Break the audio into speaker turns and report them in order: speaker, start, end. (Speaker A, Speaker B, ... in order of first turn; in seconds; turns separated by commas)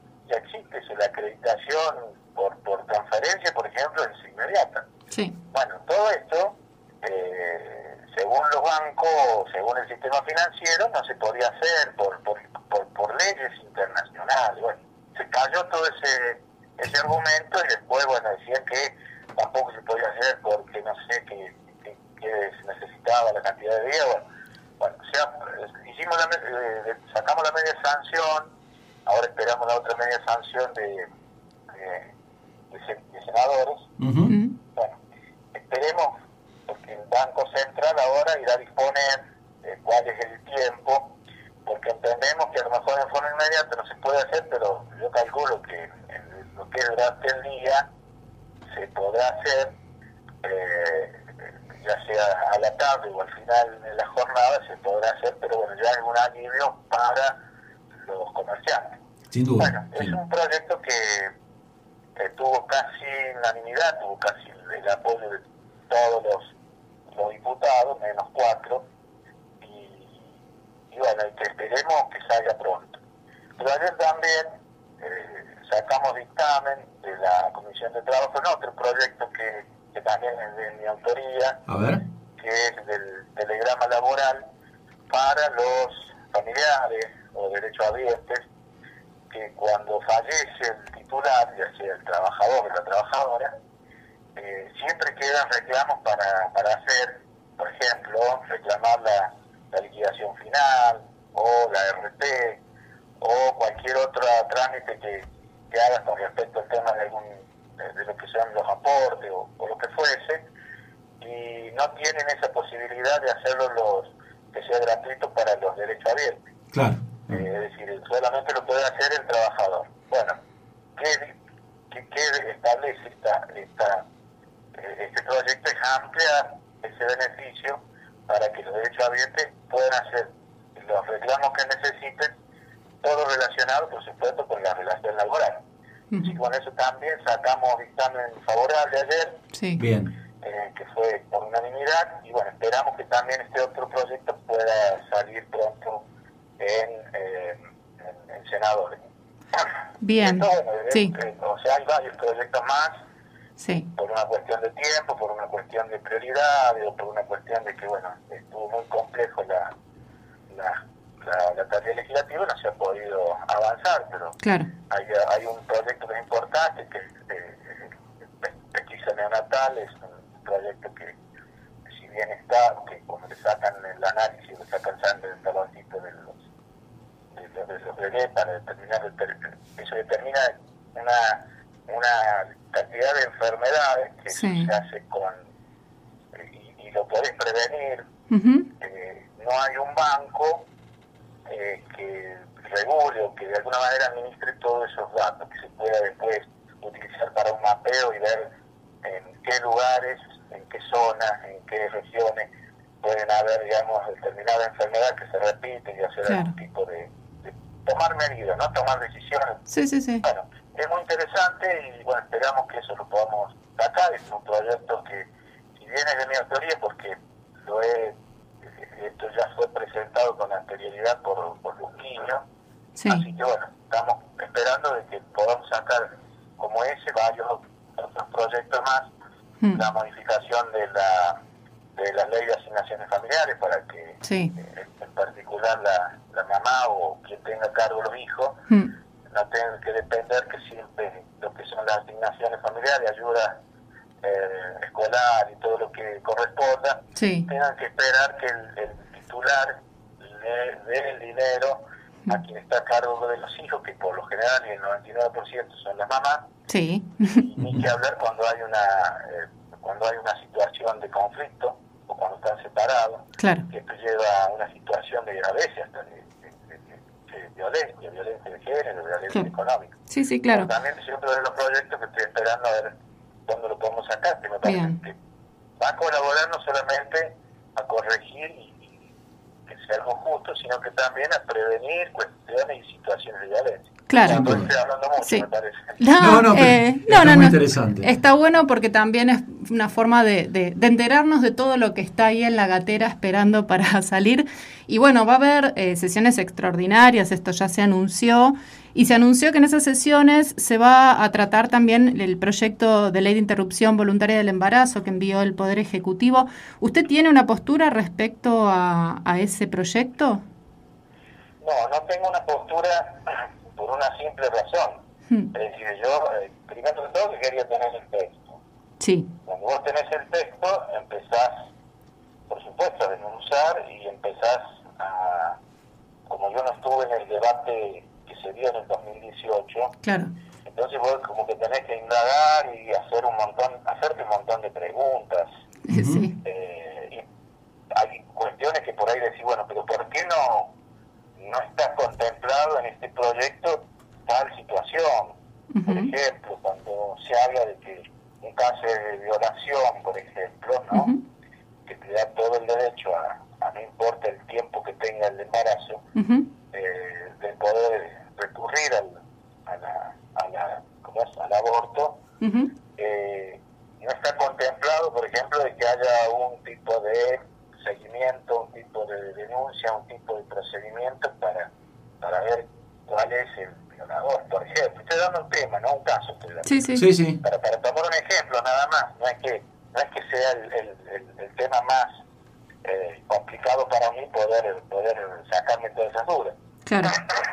Speaker A: 0.3-4.9, Speaker A: 5.5-24.2, Speaker A: 24.8-28.5, Speaker A: 29.1-31.1, Speaker A: 31.7-32.1, Speaker A: 32.7-33.9, Speaker B: 34.0-34.3, Speaker C: 34.3-34.5, Speaker A: 35.5-36.1, Speaker A: 36.7-41.1, Speaker A: 41.6-47.9, Speaker A: 48.7-49.7, Speaker A: 50.4-57.4, Speaker A: 58.0-59.0, Speaker B: 59.3-60.2, Speaker A: 59.6-61.3, Speaker A: 62.2-66.5, Speaker A: 67.1-68.8, Speaker A: 69.6-70.3, Speaker A: 70.9-73.0, Speaker A: 73.6-74.5, Speaker A: 75.0-81.6, Speaker B: 81.7-82.0, Speaker A: 82.4-84.4, Speaker A: 85.1-88.5, Speaker A: 89.3-93.5, Speaker A: 94.3-102.6, Speaker A: 103.2-110.4, Speaker A: 111.2-116.4, Speaker B: 116.7-117.4, Speaker A: 117.3-120.3, Speaker A: 121.0-121.3, Speaker A: 121.9-124.0, Speaker A: 124.7-132.3, Speaker A: 133.0-135.6, Speaker A: 136.2-139.4, Speaker C: 139.5-139.8, Speaker B: 139.8-140.1, Speaker A: 140.4-146.0, Speaker A: 146.6-149.0, Speaker C: 150.0-151.1, Speaker A: 150.1-152.9, Speaker C: 153.6-153.9, Speaker A: 153.9-159.7, Speaker A: 160.5-164.4, Speaker C: 164.4-164.7, Speaker A: 164.9-171.2, Speaker A: 171.9-176.4, Speaker A: 177.3-185.4, Speaker C: 184.3-184.7, Speaker A: 186.3-188.1, Speaker C: 188.3-188.7, Speaker A: 188.8-190.7, Speaker A: 191.5-198.5, Speaker A: 199.0-202.5, Speaker A: 203.0-209.7, Speaker C: 206.3-206.5, Speaker C: 209.7-210.2, Speaker A: 210.2-218.2, Speaker A: 218.8-222.4, Speaker C: 223.0-223.2, Speaker A: 223.1-229.1, Speaker A: 229.7-231.4, Speaker A: 231.9-238.6, Speaker C: 234.2-234.5, Speaker A: 239.3-243.6, Speaker A: 244.2-256.5, Speaker C: 247.2-247.5, Speaker C: 256.7-257.4, Speaker A: 257.3-270.0, Speaker C: 263.4-263.6, Speaker C: 270.1-270.7, Speaker A: 270.5-272.9, Speaker A: 273.5-275.1, Speaker C: 274.6-275.0, Speaker A: 275.8-279.0, Speaker A: 279.7-286.0, Speaker C: 284.1-284.4, Speaker B: 284.2-284.7, Speaker C: 286.0-310.4, Speaker B: 286.2-288.1, Speaker A: 311.6-315.0, Speaker A: 315.5-318.6, Speaker C: 319.0-319.3, Speaker A: 319.4-321.7, Speaker A: 322.5-325.6, Speaker A: 326.3-329.9, Speaker C: 330.0-330.3, Speaker A: 330.6-335.5, Speaker C: 335.9-336.3, Speaker B: 335.9-336.2, Speaker A: 336.4-337.2, Speaker A: 337.9-340.7, Speaker A: 341.4-345.4, Speaker C: 345.7-346.1, Speaker A: 345.9-351.1, Speaker C: 350.9-351.2, Speaker A: 351.9-356.0, Speaker C: 356.1-356.5, Speaker A: 356.7-362.2, Speaker C: 362.4-362.7, Speaker A: 363.0-371.7, Speaker A: 372.2-376.9, Speaker C: 376.6-377.0, Speaker B: 376.9-377.4, Speaker A: 377.4-382.1, Speaker A: 382.8-386.5, Speaker C: 386.9-387.2